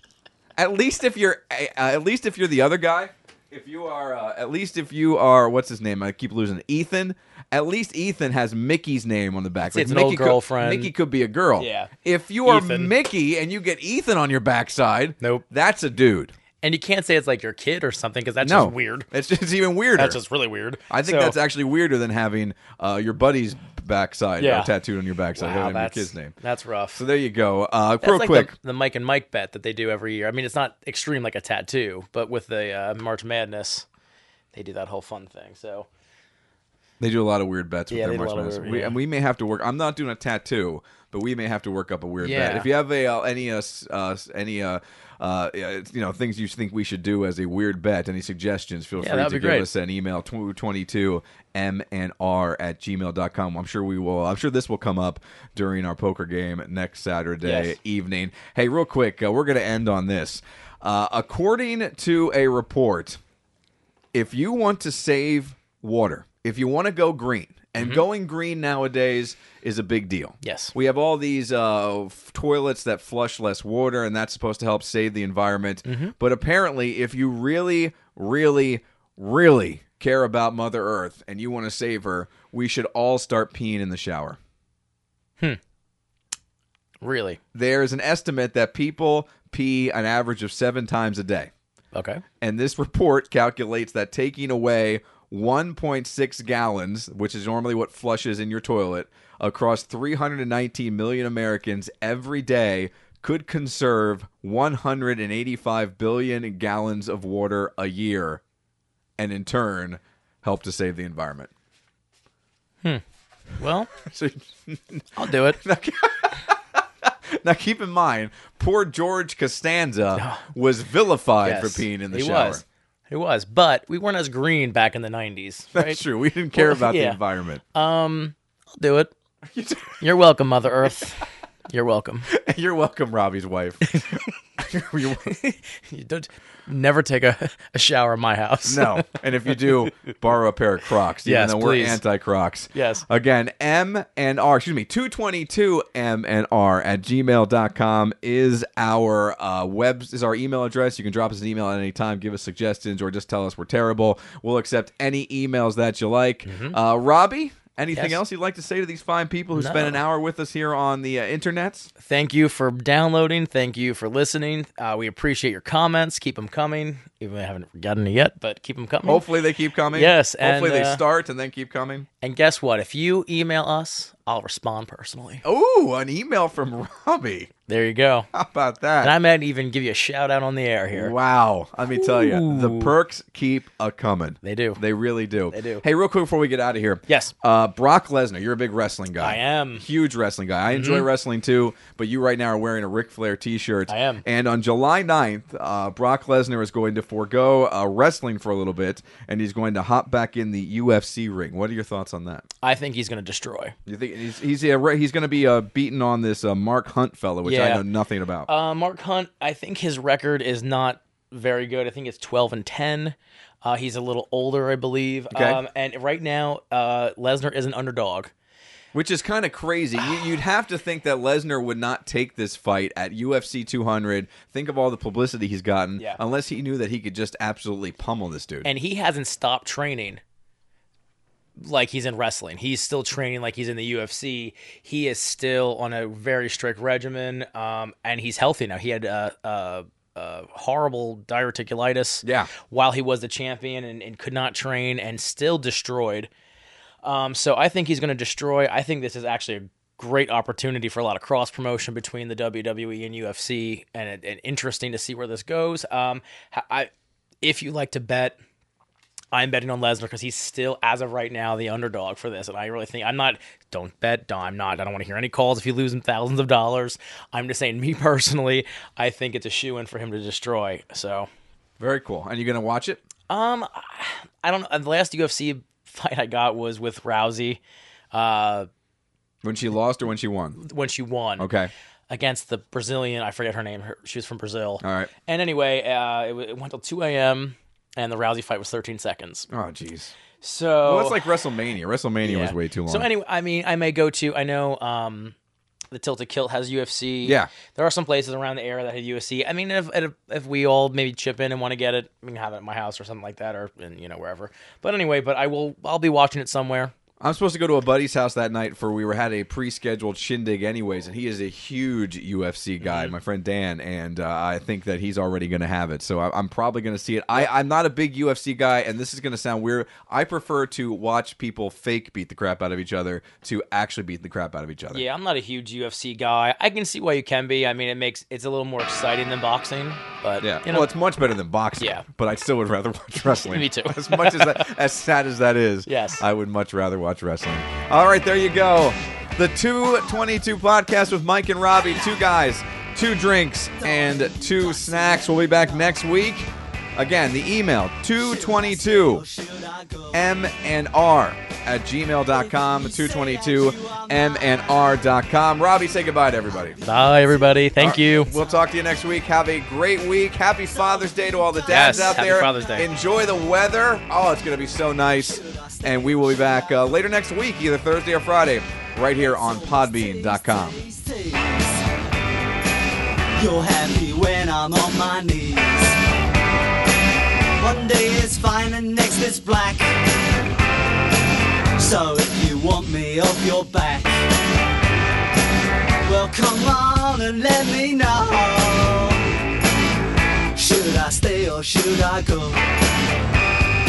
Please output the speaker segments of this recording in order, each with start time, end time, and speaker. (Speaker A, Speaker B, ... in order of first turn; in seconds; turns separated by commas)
Speaker A: 0.6-16.3, Speaker B: 9.7-10.9, Speaker B: 11.6-11.9, Speaker B: 12.4-12.9, Speaker B: 15.2-15.4, Speaker B: 16.6-19.1, Speaker A: 18.4-20.2, Speaker B: 19.9-21.4, Speaker A: 20.9-26.3, Speaker B: 24.4-24.7, Speaker B: 25.3-27.0, Speaker A: 26.9-28.5, Speaker B: 28.0-33.9, Speaker B: 34.5-35.9, Speaker A: 37.0-63.2, Speaker B: 37.9-39.0, Speaker B: 42.2-42.7, Speaker B: 49.0-49.7, Speaker B: 57.4-57.8, Speaker A: 64.1-84.4, Speaker B: 67.8-68.0, Speaker B: 70.4-70.7, Speaker B: 75.8-76.1, Speaker B: 87.0-87.4, Speaker A: 87.5-91.5, Speaker B: 91.9-92.2, Speaker A: 92.4-108.4, Speaker A: 109.2-111.5, Speaker B: 113.6-113.9, Speaker A: 114.0-122.6, Speaker B: 115.2-115.6, Speaker B: 120.2-120.4, Speaker B: 121.4-126.0, Speaker A: 125.7-127.6, Speaker B: 126.5-127.2, Speaker B: 127.7-129.1, Speaker A: 129.5-130.0, Speaker B: 130.0-132.3, Speaker A: 132.3-135.3, Speaker B: 135.2-139.0, Speaker A: 138.6-161.9, Speaker B: 141.2-142.0, Speaker B: 142.7-143.0, Speaker B: 156.4-156.8, Speaker B: 157.9-158.2, Speaker B: 159.5-160.0, Speaker B: 162.0-169.2, Speaker A: 169.0-172.1, Speaker B: 169.9-171.0, Speaker B: 172.2-175.4, Speaker A: 175.4-177.5, Speaker B: 177.7-178.3, Speaker A: 178.3-179.1, Speaker B: 179.0-181.1, Speaker A: 180.9-202.5, Speaker B: 181.9-182.9, Speaker B: 184.4-184.8, Speaker B: 185.5-185.8, Speaker B: 187.1-187.3, Speaker B: 189.2-189.8, Speaker B: 190.7-191.1, Speaker B: 193.9-194.2, Speaker B: 202.6-203.7, Speaker A: 203.8-208.5, Speaker B: 207.4-207.8, Speaker B: 208.5-218.3, Speaker A: 215.3-215.6, Speaker A: 218.9-228.7, Speaker B: 228.6-230.2, Speaker B: 231.6-246.3, Speaker A: 242.2-242.5, Speaker B: 247.0-256.9, Speaker B: 257.4-258.4, Speaker B: 259.3-271.3, Speaker A: 271.8-273.0, Speaker B: 273.3-277.6, Speaker B: 278.1-278.7, Speaker A: 279.4-280.6, Speaker B: 280.6-281.5, Speaker A: 281.4-281.7, Speaker B: 282.1-289.5, Speaker A: 284.8-285.1, Speaker A: 289.5-290.1, Speaker B: 290.4-291.3, Speaker A: 290.8-293.1, Speaker B: 292.2-295.3, Speaker B: 295.9-306.9, Speaker A: 297.2-297.5, Speaker A: 307.2-325.0, Speaker B: 312.8-313.1, Speaker B: 324.9-330.9, Speaker A: 330.4-349.2, Speaker B: 331.8-332.1, Speaker B: 333.2-334.7, Speaker B: 335.9-336.2, Speaker C: 341.8-342.1, Speaker C: 343.8-346.0, Speaker C: 348.1-350.3, Speaker A: 350.1-356.8, Speaker C: 352.2-355.4, Speaker C: 356.6-359.0, Speaker B: 356.8-358.3, Speaker A: 357.8-370.8, Speaker C: 360.6-363.5, Speaker B: 361.7-362.9, Speaker C: 365.0-367.2, Speaker C: 369.1-371.9, Speaker C: 373.3-376.0, Speaker C: 377.6-379.9, Speaker C: 381.8-384.2, Speaker C: 386.0-389.2, Speaker C: 390.5-392.6